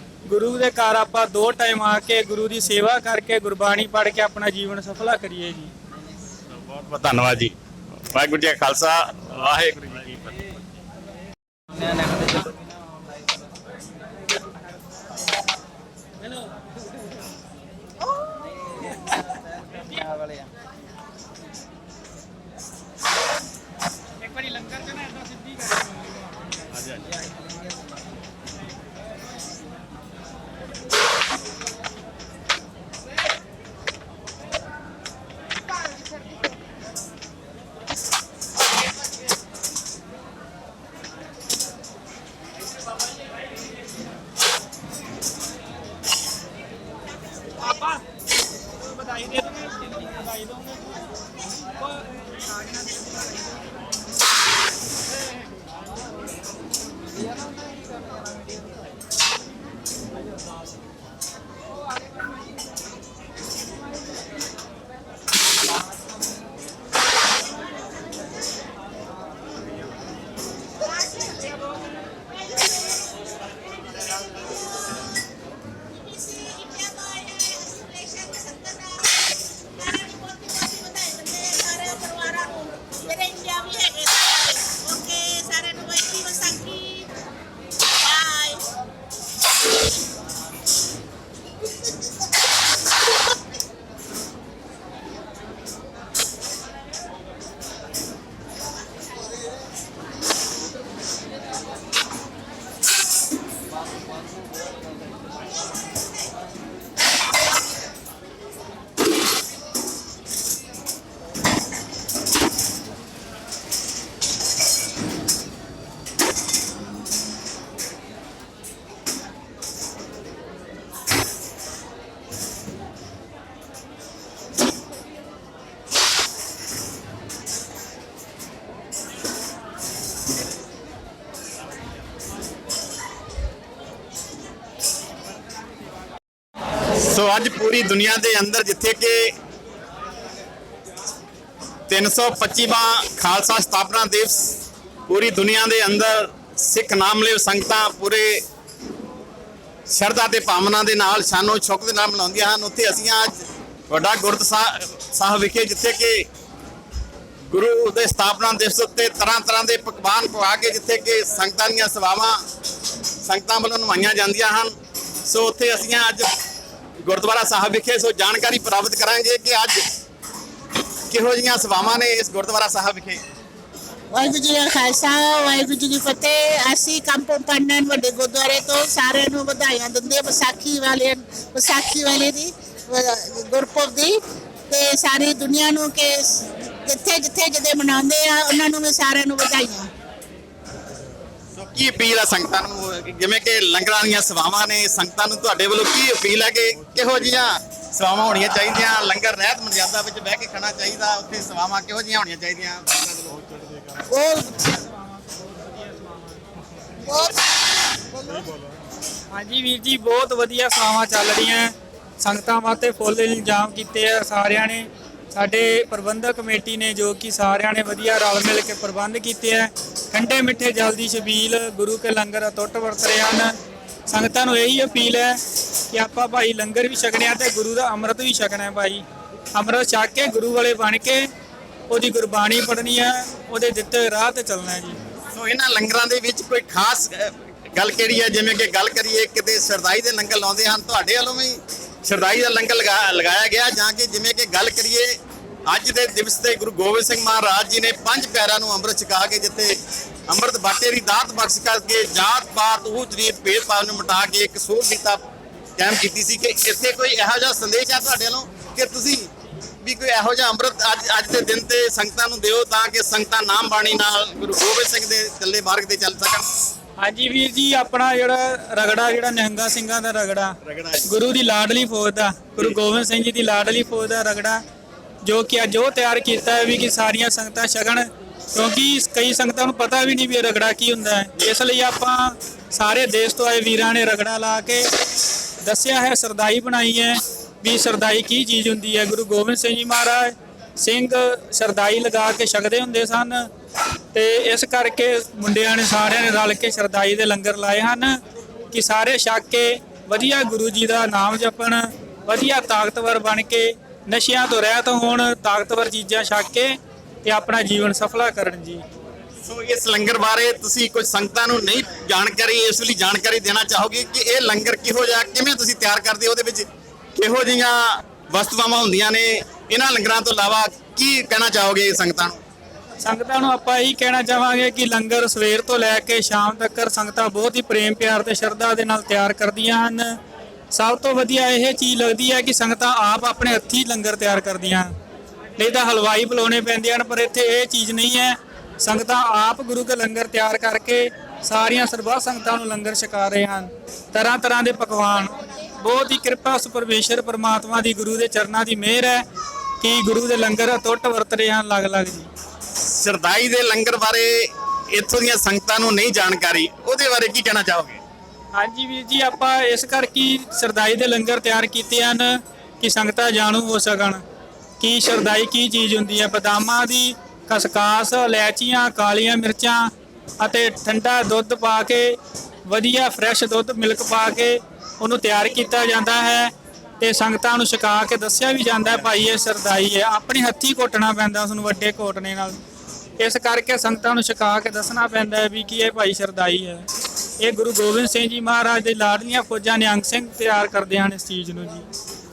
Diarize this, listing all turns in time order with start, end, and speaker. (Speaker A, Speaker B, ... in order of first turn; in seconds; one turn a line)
Speaker A: 0.3-5.7
Speaker B: 6.5-7.5
Speaker B: 8.1-10.4
Speaker A: 24.2-26.1
Speaker B: 26.7-27.1
Speaker A: 47.6-48.0
Speaker A: 48.7-51.0
Speaker A: 51.8-53.2
Speaker C: 71.0-71.6
Speaker C: 72.5-73.4
Speaker C: 74.0-75.1
Speaker C: 75.9-87.1
Speaker C: 87.9-88.6
Speaker B: 136.9-139.3
Speaker B: 141.9-144.6
Speaker B: 145.1-148.4
Speaker B: 149.9-153.3
Speaker B: 153.9-156.3
Speaker B: 157.5-162.4
Speaker B: 163.2-166.3
Speaker B: 167.0-169.9
Speaker B: 171.1-173.2
Speaker C: 174.1-189.9
Speaker B: 191.5-203.4
Speaker C: 204.1-204.8
Speaker A: 204.7-206.4
Speaker C: 207.1-207.3
Speaker A: 209.3-223.5
Speaker A: 224.1-225.4
Speaker A: 225.9-229.0
Speaker A: 229.6-231.3
Speaker A: 231.9-235.0
Speaker B: 235.3-245.2
Speaker B: 245.7-259.3
Speaker B: 259.8-266.5
Speaker A: 267.0-274.6
Speaker B: 270.6-271.1
Speaker A: 275.2-284.9
Speaker A: 285.6-293.5
Speaker A: 294.1-298.2
Speaker A: 298.7-308.8
Speaker B: 309.4-322.4
Speaker A: 323.0-330.2
Speaker A: 330.7-334.9
Speaker A: 335.6-349.2
Speaker A: 349.8-352.3
Speaker B: 352.8-358.0
Speaker A: 358.5-364.2
Speaker A: 364.8-382.6
Speaker A: 383.2-386.9
Speaker A: 387.4-391.9